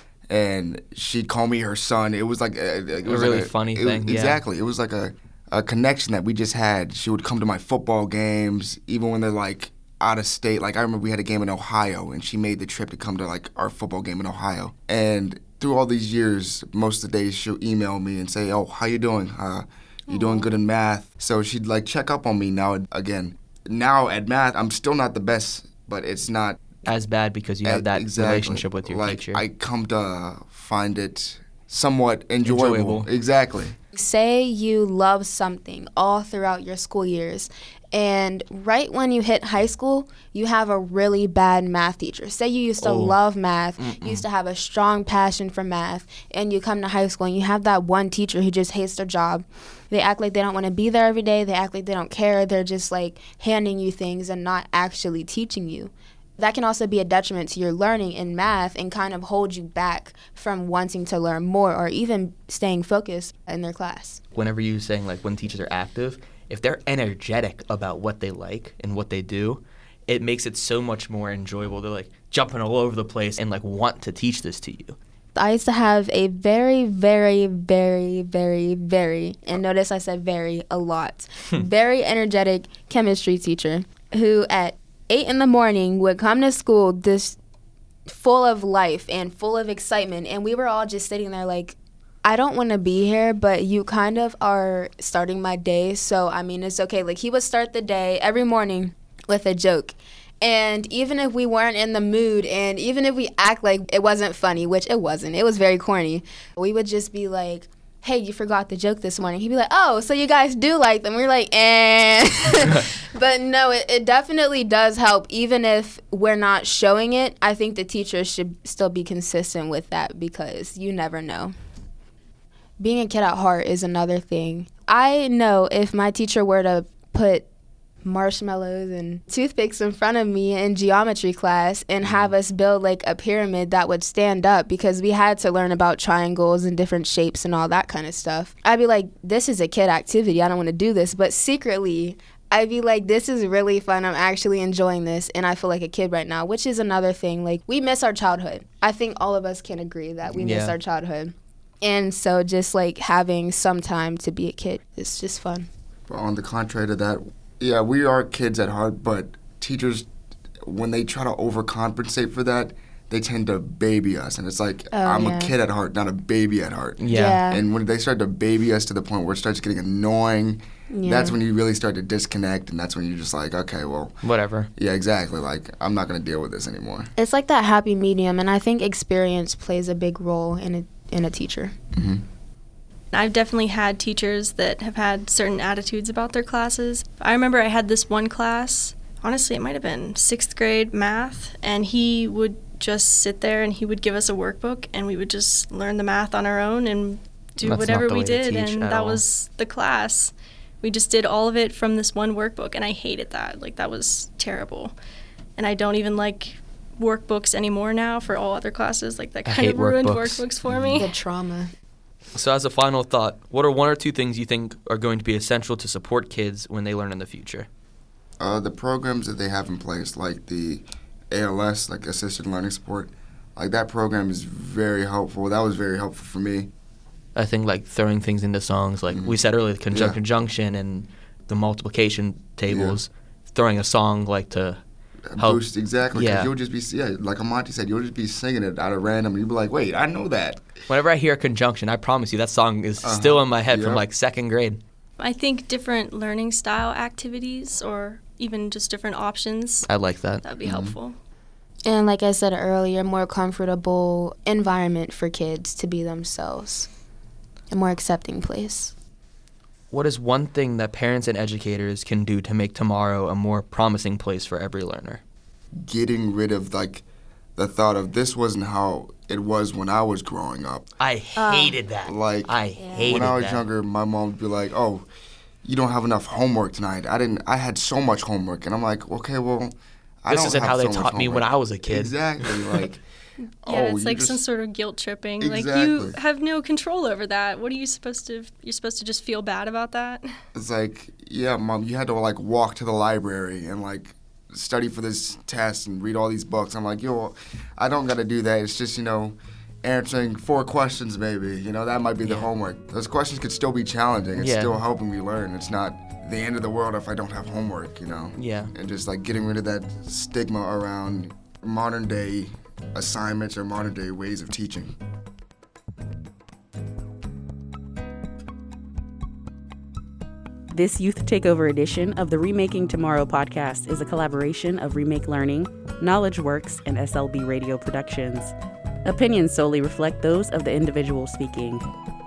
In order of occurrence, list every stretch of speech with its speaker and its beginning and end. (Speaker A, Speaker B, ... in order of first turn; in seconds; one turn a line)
Speaker A: 0.3-26.6
Speaker B: 3.0-4.4
Speaker C: 20.1-20.5
Speaker B: 26.8-29.4
Speaker A: 27.6-33.8
Speaker B: 32.4-33.1
Speaker C: 33.9-64.2
Speaker B: 42.8-43.2
Speaker B: 43.8-44.2
Speaker B: 64.3-75.0
Speaker C: 75.3-87.4
Speaker C: 88.1-121.5
Speaker C: 122.8-127.4
Speaker C: 128.0-155.7
Speaker B: 150.3-150.8
Speaker A: 156.1-160.1
Speaker A: 160.6-174.2
Speaker C: 164.9-165.5
Speaker B: 167.0-167.4
Speaker C: 167.1-167.6
Speaker C: 170.9-171.4
Speaker B: 174.2-174.7
Speaker A: 174.8-177.1
Speaker C: 177.2-181.8
Speaker A: 181.9-182.2
Speaker D: 183.1-204.9
Speaker B: 197.6-199.2
Speaker D: 205.6-211.1
Speaker B: 209.4-210.4
Speaker A: 210.7-211.0
Speaker C: 210.9-211.7
Speaker B: 212.3-217.7
Speaker A: 218.4-226.7
Speaker B: 227.3-234.8
Speaker A: 229.1-229.4
Speaker A: 229.9-230.2
Speaker A: 232.7-233.0
Speaker A: 235.3-240.7
Speaker B: 235.4-236.5
Speaker B: 240.9-244.8
Speaker A: 243.0-244.0
Speaker D: 245.2-249.9
Speaker B: 249.9-250.4
Speaker D: 250.4-251.2
Speaker A: 250.6-251.0
Speaker C: 251.8-256.9
Speaker C: 257.7-258.9
Speaker B: 259.9-265.2
Speaker A: 265.7-267.0
Speaker A: 267.6-270.9
Speaker B: 271.0-273.6
Speaker C: 271.4-271.8
Speaker A: 272.0-275.1
Speaker C: 272.8-273.1
Speaker A: 275.6-283.0
Speaker B: 280.3-282.8
Speaker D: 283.4-290.3
Speaker A: 283.6-284.4
Speaker A: 285.4-286.2
Speaker A: 290.5-314.9
Speaker B: 302.2-302.5
Speaker B: 304.4-304.8
Speaker B: 308.4-308.7
Speaker E: 320.7-328.5
Speaker E: 329.0-331.9